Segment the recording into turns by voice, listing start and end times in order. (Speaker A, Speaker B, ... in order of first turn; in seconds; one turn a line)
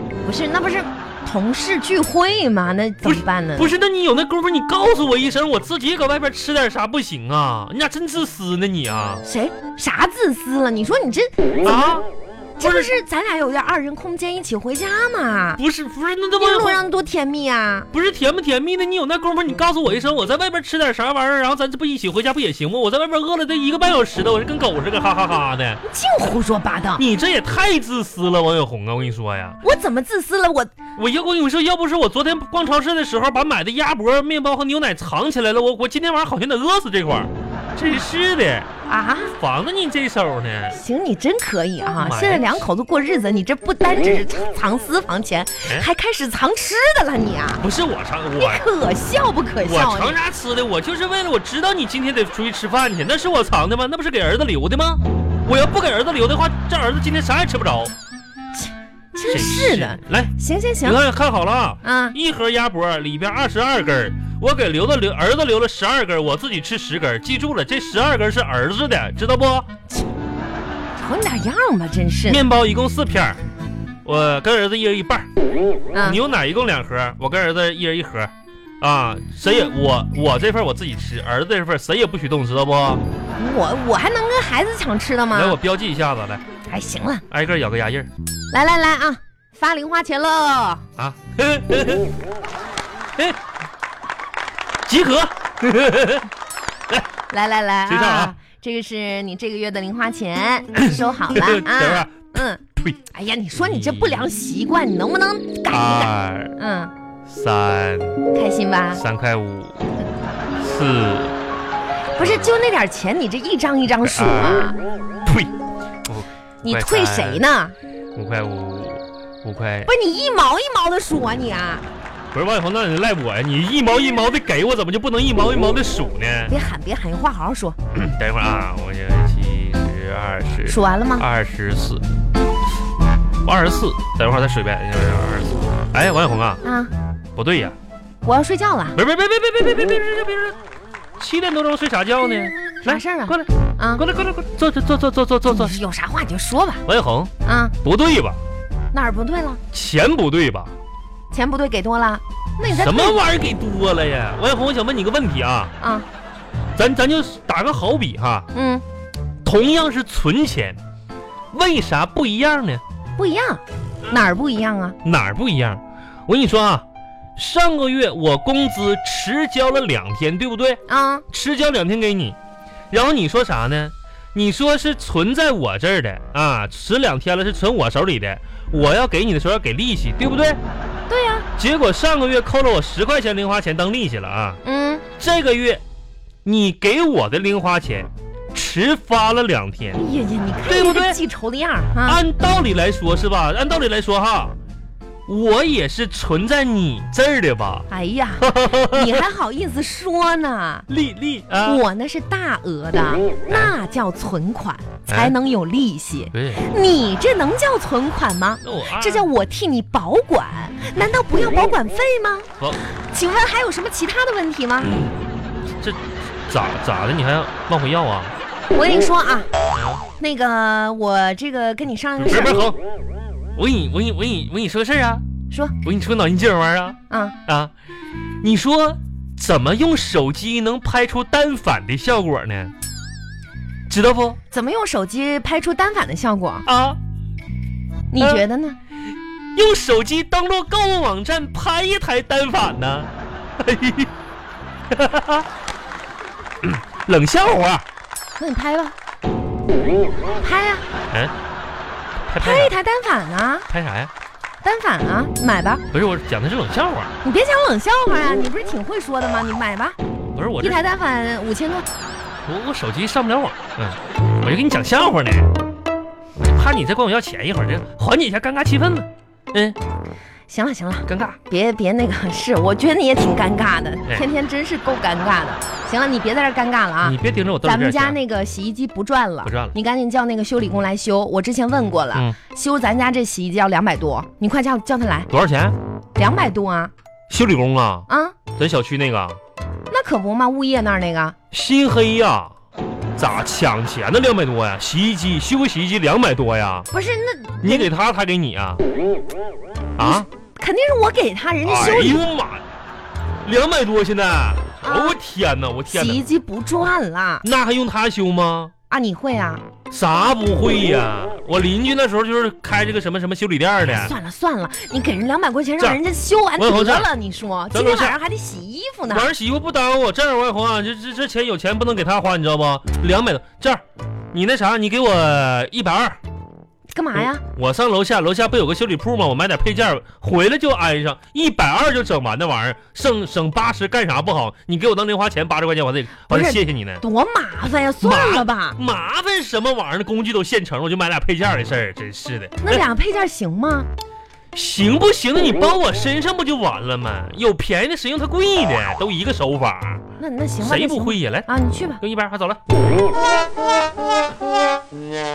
Speaker A: 0.2-3.7
Speaker B: 3.0-9.2
Speaker A: 9.2-11.3
Speaker B: 11.6-12.1
Speaker A: 12.6-15.6
Speaker B: 12.6-12.9
Speaker B: 15.6-16.8
Speaker A: 16.4-17.9
Speaker B: 17.9-25.8
Speaker A: 25.8-27.0
Speaker B: 27.0-29.6
Speaker A: 29.6-30.7
Speaker B: 30.9-38.7
Speaker A: 38.9-39.3
Speaker B: 39.4-40.8
Speaker A: 40.7-47.6
Speaker B: 42.0-42.6
Speaker B: 47.6-48.7
Speaker A: 48.4-50.2
Speaker B: 49.6-57.9
Speaker A: 58.5-61.0
Speaker B: 59.2-69.7
Speaker A: 61.8-62.1
Speaker A: 71.0-72.4
Speaker B: 72.3-73.4
Speaker B: 74.0-75.3
Speaker A: 75.9-76.2
Speaker B: 76.0-83.0
Speaker A: 83.3-85.6
Speaker B: 85.3-86.4
Speaker A: 86.7-87.2
Speaker B: 87.3-88.1
Speaker A: 88.5-90.8
Speaker B: 91.0-92.1
Speaker B: 94.9-96.3
Speaker A: 97.3-106.9
Speaker B: 97.9-98.3
Speaker B: 100.8-102.2
Speaker B: 103.5-104.3
Speaker B: 105.7-106.5
Speaker B: 107.3-108.2
Speaker A: 108.3-109.0
Speaker B: 108.9-109.9
Speaker B: 110.6-111.4
Speaker A: 112.1-114.8
Speaker B: 114.0-114.7
Speaker B: 115.2-115.5
Speaker B: 116.0-117.4
Speaker A: 116.6-117.7
Speaker B: 118.1-119.9
Speaker A: 119.9-121.8
Speaker B: 122.3-126.5
Speaker A: 126.5-127.8
Speaker B: 127.9-132.0
Speaker A: 130.7-131.2
Speaker B: 133.4-136.6
Speaker A: 136.6-136.9
Speaker B: 137.3-137.8
Speaker A: 138.2-139.0
Speaker B: 138.9-140.6
Speaker B: 141.2-145.7
Speaker A: 142.8-144.0
Speaker A: 145.4-146.8
Speaker B: 146.8-147.3
Speaker A: 147.4-147.7
Speaker B: 147.8-148.4
Speaker A: 148.9-149.6
Speaker B: 149.7-150.7
Speaker A: 151.3-153.3
Speaker B: 152.7-155.7
Speaker A: 155.8-156.1
Speaker B: 156.8-158.5
Speaker A: 158.5-158.8
Speaker B: 159.4-160.8
Speaker B: 161.5-162.8
Speaker A: 163.2-164.9
Speaker B: 165.0-166.8
Speaker B: 167.3-172.3
Speaker A: 170.9-171.2
Speaker B: 172.9-180.6
Speaker A: 181.1-181.5
Speaker B: 181.6-184.6
Speaker A: 184.6-185.0
Speaker B: 185.2-185.8
Speaker B: 186.4-190.0
Speaker A: 189.9-192.2
Speaker B: 190.6-191.2
Speaker B: 192.0-194.5
Speaker B: 195.3-197.9
Speaker A: 197.9-200.9
Speaker B: 198.4-199.2
Speaker B: 200.9-201.8
Speaker A: 201.6-212.5
Speaker B: 205.1-205.3
Speaker B: 206.3-206.6
Speaker B: 208.6-209.3
Speaker A: 213.1-215.0
Speaker B: 215.8-218.3
Speaker A: 218.7-219.5
Speaker B: 219.7-220.0
Speaker A: 220.2-222.7
Speaker B: 222.2-222.8
Speaker B: 223.6-225.2
Speaker B: 225.8-227.7
Speaker A: 227.1-227.3
Speaker B: 228.4-232.7
Speaker B: 233.9-234.4
Speaker A: 234.5-236.7
Speaker B: 236.7-237.0
Speaker A: 238.1-238.8
Speaker B: 239.5-244.1
Speaker B: 244.9-245.5
Speaker B: 246.6-247.8
Speaker A: 248.4-248.9
Speaker A: 250.4-250.8
Speaker B: 252.3-252.7
Speaker A: 252.4-253.7
Speaker B: 253.7-254.1
Speaker A: 254.6-255.8
Speaker B: 255.9-257.1
Speaker A: 257.2-260.0
Speaker B: 260.3-260.8
Speaker A: 260.6-261.9
Speaker B: 262.4-265.5
Speaker B: 266.4-269.8
Speaker A: 270.5-285.3
Speaker B: 271.1-271.4
Speaker B: 277.0-278.2
Speaker B: 279.4-279.8
Speaker B: 285.3-285.8
Speaker A: 286.1-286.9
Speaker B: 287.3-289.4
Speaker A: 288.1-288.4
Speaker A: 289.9-291.3
Speaker B: 291.5-292.5
Speaker B: 293.2-296.9
Speaker A: 296.9-297.9
Speaker B: 297.6-298.8
Speaker B: 300.0-300.2
Speaker A: 300.0-302.2
Speaker B: 301.6-302.6
Speaker B: 303.4-306.2
Speaker A: 304.8-305.2
Speaker A: 305.9-307.4
Speaker B: 307.4-308.7
Speaker A: 308.9-309.6
Speaker B: 309.9-314.1
Speaker A: 313.9-319.3
Speaker B: 316.6-317.1
Speaker B: 317.7-318.2
Speaker B: 319.1-323.8
Speaker B: 324.3-326.2
Speaker A: 326.9-327.4
Speaker B: 327.5-337.0
Speaker A: 336.3-338.8
Speaker B: 338.0-342.8
Speaker A: 342.6-343.9
Speaker B: 344.5-350.0
Speaker A: 350.2-352.0
Speaker B: 350.6-351.5
Speaker B: 352.0-352.6